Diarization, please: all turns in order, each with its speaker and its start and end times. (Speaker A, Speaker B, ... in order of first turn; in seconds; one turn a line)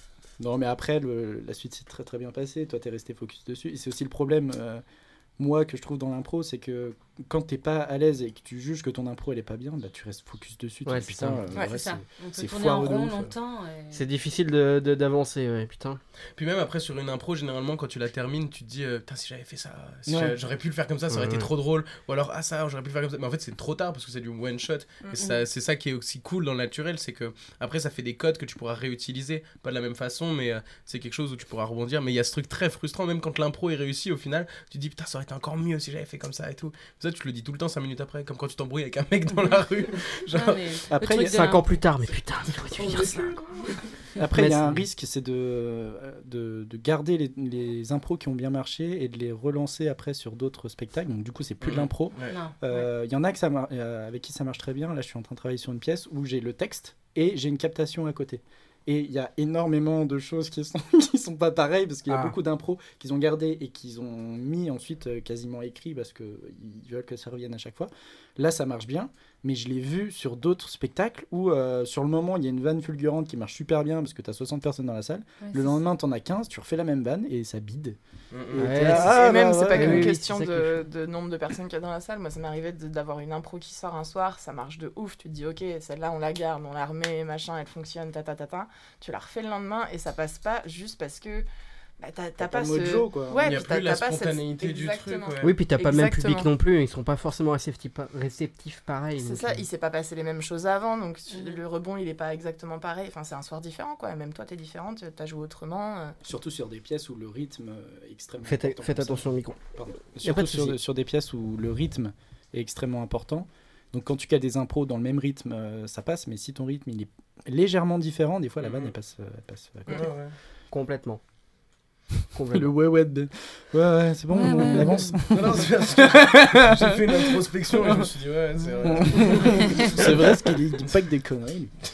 Speaker A: 0.4-4.8
Speaker A: 5.4-13.3
Speaker B: 10.8-11.4
Speaker C: 11.5-14.0
Speaker B: 13.9-16.0
Speaker D: 16.4-40.7
Speaker A: 20.1-20.4
Speaker B: 21.1-21.5
Speaker E: 25.0-25.4
Speaker C: 40.3-41.6
Speaker A: 40.9-41.5
Speaker B: 41.3-43.3
Speaker C: 42.8-43.7
Speaker A: 44.2-78.0
Speaker B: 44.3-44.8
Speaker D: 51.6-52.4
Speaker C: 52.3-52.8
Speaker C: 75.4-75.8
Speaker D: 78.3-78.6
Speaker A: 78.5-80.1
Speaker B: 78.5-80.8
Speaker E: 78.9-91.5
Speaker E: 92.0-96.5
Speaker A: 92.4-93.4
Speaker D: 93.4-95.5
Speaker B: 95.4-99.6
Speaker E: 99.2-106.2
Speaker A: 106.2-120.1
Speaker B: 108.4-109.6
Speaker B: 110.2-110.8
Speaker D: 118.6-118.9
Speaker D: 119.9-120.3
Speaker B: 120.7-121.2
Speaker B: 122.3-122.7
Speaker A: 122.5-128.1
Speaker C: 124.3-125.2
Speaker D: 125.3-130.3
Speaker A: 128.8-131.7